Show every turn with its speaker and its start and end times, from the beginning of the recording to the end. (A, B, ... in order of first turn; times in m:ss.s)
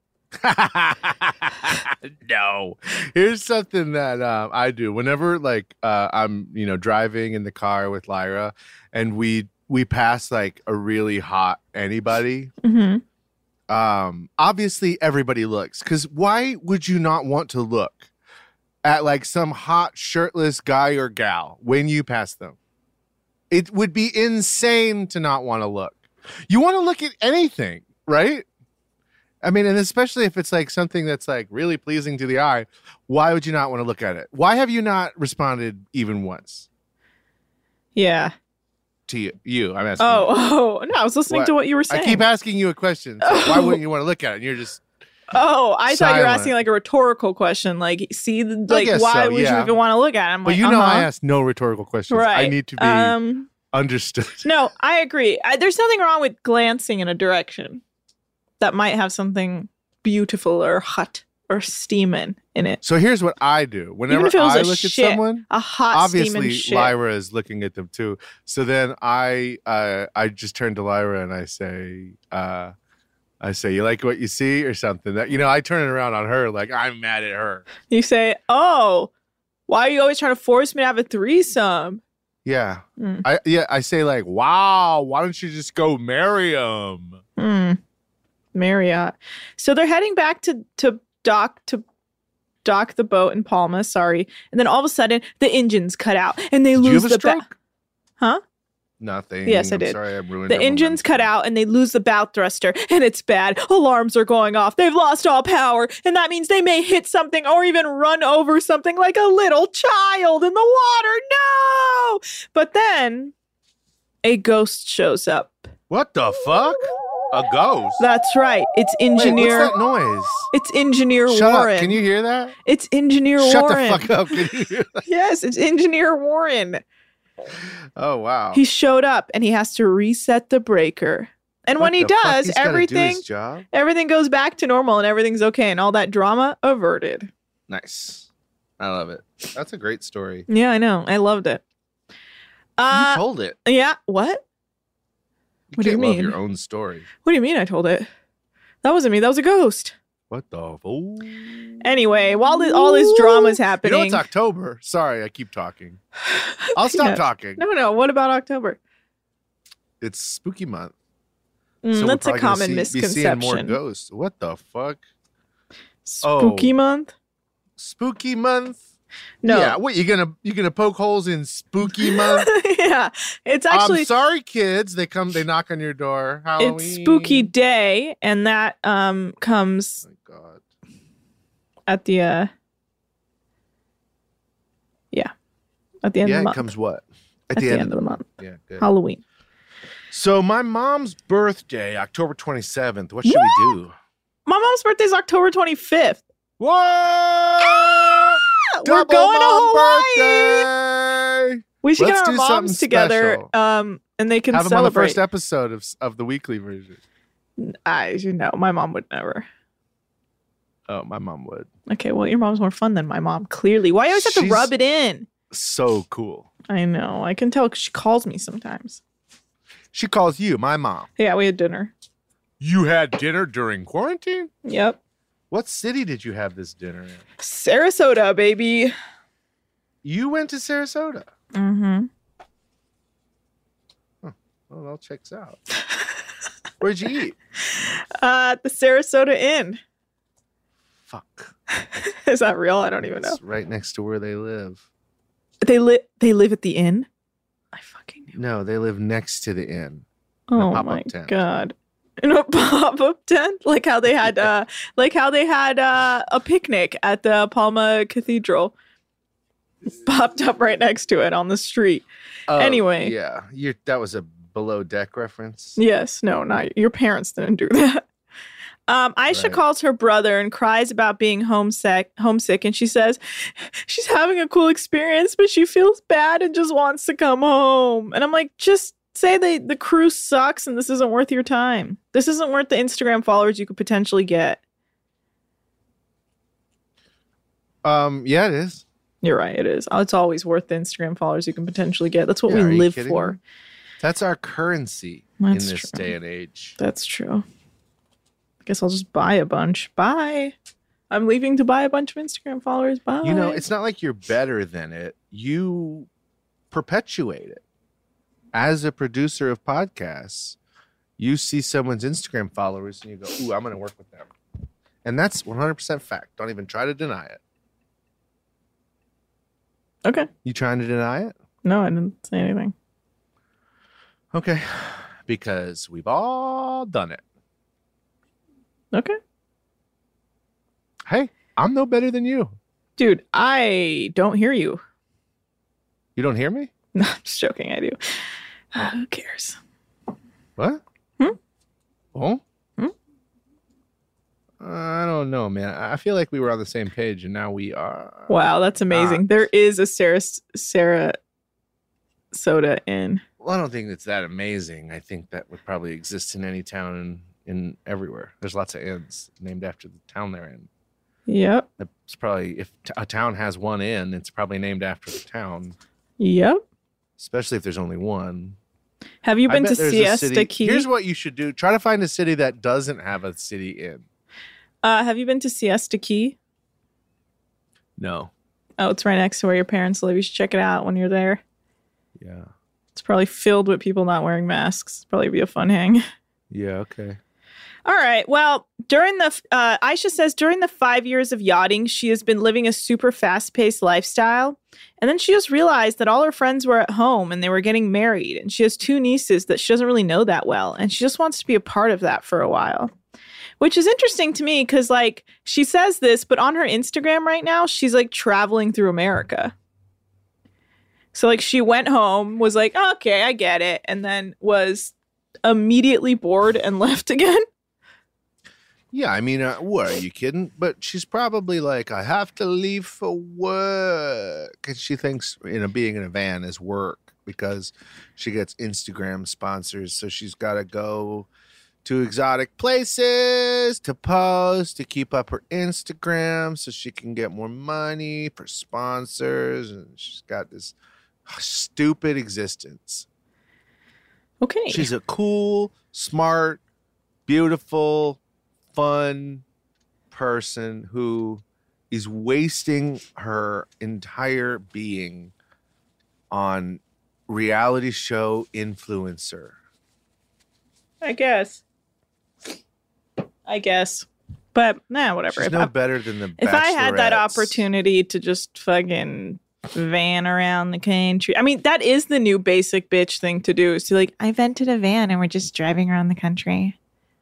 0:00.4-0:12.5 A
0:12.6-0:13.0 B
0:13.7-0:18.1 A
0:18.8-0:22.6 A
0:23.5-0:28.4 A
0:29.4-0:36.7 A
0:38.0-0:38.3 B
0:39.1-0:40.3 A
0:40.0-0:42.2 B
0:41.3-0:44.8 A
0:43.2-0:43.8 B
0:45.3-0:51.1 B
0:45.9-0:46.5 A
0:48.7-0:49.8 A
0:50.4-0:53.2 A
0:52.1-0:53.5 B
0:53.7-0:54.5 A
0:54.4-0:57.8 B
0:58.6-1:02.8 B
1:02.8-1:12.7 A
1:04.1-1:07.0 B
1:13.4-1:17.6 A
1:17.9-1:19.1 B
1:19.7-1:22.0 B
1:22.4-1:27.2 A
1:27.4-1:27.8 B
1:28.6-1:31.8 B
1:32.6-1:37.4 B
1:36.8-1:37.5 A
1:39.0-1:41.3 A
1:39.5-1:53.3 B
1:54.2-1:55.7 B
1:55.9-1:58.0 A
1:58.0-1:59.7 B
1:59.2-2:00.5 A
2:00.5-2:02.0 B
2:01.3-2:02.6 A
2:02.6-2:04.1 B
2:03.4-2:05.0 A
2:05.0-2:06.8 B
2:08.0-2:08.6 A
2:08.5-2:17.3 B
2:11.8-2:13.7 A
2:17.7-2:18.3 A
2:18.8-2:20.5 A
2:20.5-2:21.6 B
2:22.8-2:24.4 B
2:22.9-2:23.6 A
2:25.7-2:27.1 A
2:25.8-2:26.4 B
2:27.2-2:28.1 B
2:28.8-2:30.0 B
2:30.3-2:31.8 A
2:31.8-2:34.2 B
2:32.5-2:36.0 A
2:36.3-2:38.8 B
2:36.8-2:37.6 A
2:40.0-2:40.9 A
2:41.8-2:43.8 B
2:41.9-2:45.0 A
2:46.0-2:47.1 B
2:46.2-2:46.7 A
2:47.8-2:48.8 A
2:49.4-2:49.8 B
2:49.4-2:52.5 A
2:51.9-2:54.1 B
2:53.7-2:57.5 A
2:56.6-3:00.0 B
3:00.0-3:00.6 A
3:01.9-3:02.5 B
3:06.0-3:06.7 B
3:06.2-3:08.9 A
3:07.5-3:08.3 B
3:08.8-3:09.2 B
3:10.1-3:13.9 A
3:13.2-3:13.7 B
3:14.5-3:16.2 B
3:16.6-3:23.5 A
3:18.7-3:20.7 B
3:21.8-3:25.2 B
3:24.5-3:27.0 A
3:27.6-3:29.5 B
3:30.9-3:31.7 A
3:31.9-3:35.3 B
3:34.1-3:34.7 A
3:35.5-3:36.5 A
3:36.7-3:39.0 B
3:39.9-3:41.1 A
3:41.2-3:41.9 B
3:42.6-3:44.5 A
3:44.6-3:45.0 B
3:45.5-3:47.2 A
3:47.4-3:48.9 B
3:50.0-3:51.3 A
3:51.5-3:52.1 B
3:54.2-3:55.6 A
3:56.8-3:57.4 A
3:57.7-3:59.8 B
4:01.1-4:01.5 A
4:01.8-4:03.4 B
4:03.2-4:04.8 A
4:05.6-4:07.1 B
4:07.7-4:08.4 B
4:08.4-4:10.0 A
4:10.5-4:18.7 B
4:10.6-4:11.5 A
4:19.9-4:23.1 B
4:22.5-4:25.8 A
4:25.8-4:28.0 B
4:28.9-4:44.6 B
4:29.3-4:29.6 A
4:47.8-4:48.8 A
4:49.2-4:53.4 B
4:52.5-4:53.4 A
4:54.0-4:56.8 A
4:55.4-4:56.1 B
4:56.8-4:57.4 B
4:58.6-5:00.5 B
5:01.1-5:03.6 B
5:03.2-5:06.1 A
5:06.7-5:07.6 A
5:08.5-5:10.6 A
5:11.2-5:14.3 A
5:15.0-5:17.4 A
5:20.4-5:21.3 A
5:21.6-5:22.7 B
5:24.3-5:27.2 A
5:28.9-5:29.2 B
5:31.1-5:32.6 A
5:33.0-5:34.8 B
5:36.2-5:36.7 A
5:37.0-5:38.0 B
5:38.7-5:39.6 B
5:40.6-5:40.8 A
5:42.1-5:42.4 A
5:44.6-5:49.2 A
5:48.3-5:51.2 B
5:52.3-5:53.2 B
5:53.4-6:00.7 A
6:01.3-6:01.7 B
6:01.8-6:05.8 A
6:06.2-6:06.6 B
6:07.2-6:08.6 A
6:09.2-6:10.9 B
6:09.5-6:14.0 A
6:14.8-6:16.4 B
6:18.0-6:18.3 A
6:18.8-6:21.4 B
6:22.2-6:22.5 A
6:23.0-6:26.0 B
6:26.5-6:27.2 A
6:27.8-6:42.9 B
6:43.6-6:49.5 B
6:51.1-6:54.9 B
6:55.4-6:57.4 B
6:58.9-7:11.3 A
7:11.8-7:20.7 A
7:21.3-7:23.1 A
7:24.4-7:24.9 B
7:24.7-7:26.6 A
7:27.3-7:28.2 A
7:28.7-7:29.4 A
7:30.1-7:35.3 A
7:36.3-7:39.6 A
7:41.0-7:41.6 B
7:43.5-7:45.7 B
7:45.3-7:47.6 A
7:46.4-7:56.8 B